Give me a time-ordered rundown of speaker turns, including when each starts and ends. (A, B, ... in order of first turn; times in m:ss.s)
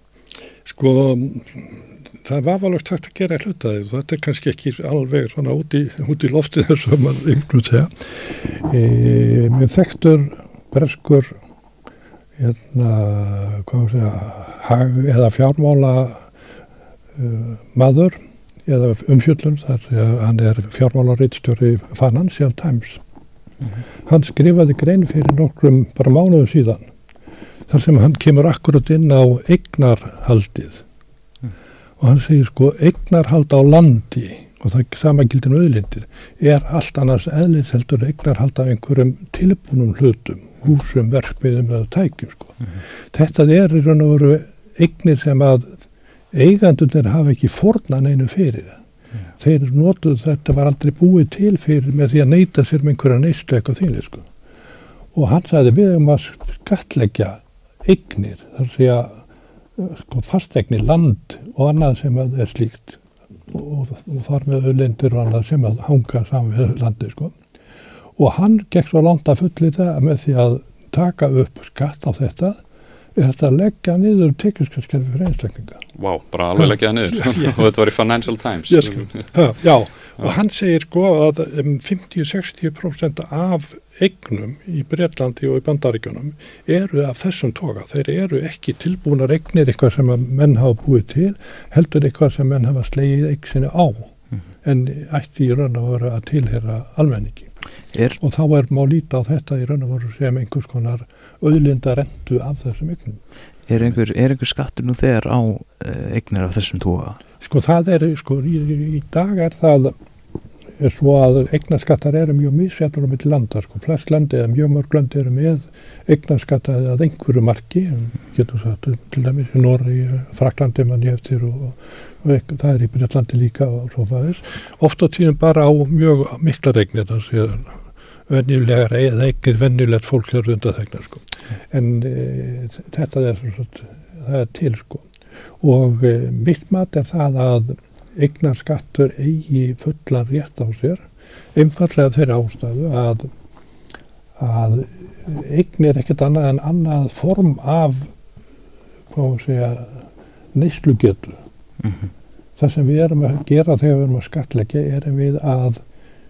0:00.6-0:11.3 A
0:12.4-0:16.3 A
0:17.1-0:23.0 A
0:24.0-0:26.9 A
0:27.7-0:30.8 A
0:32.0-0:45.8 A
0:46.3-0:48.8 A
0:49.4-0:54.3 A
0:55.1-0:59.2 A
0:59.8-1:07.4 A
1:08.2-1:12.6 A
1:13.1-1:15.8 A
1:15.9-1:19.3 B
1:18.7-1:34.1 A
1:34.6-1:37.5 A
1:37.9-1:38.2 C
1:38.2-1:43.2 A
1:43.7-1:47.2 C
1:47.4-1:49.9 A
1:50.8-2:15.1 A
2:15.6-2:23.3 A
2:24.4-2:28.1 A
2:29.1-2:31.4 A
2:31.8-2:32.1 C
2:32.6-2:35.8 A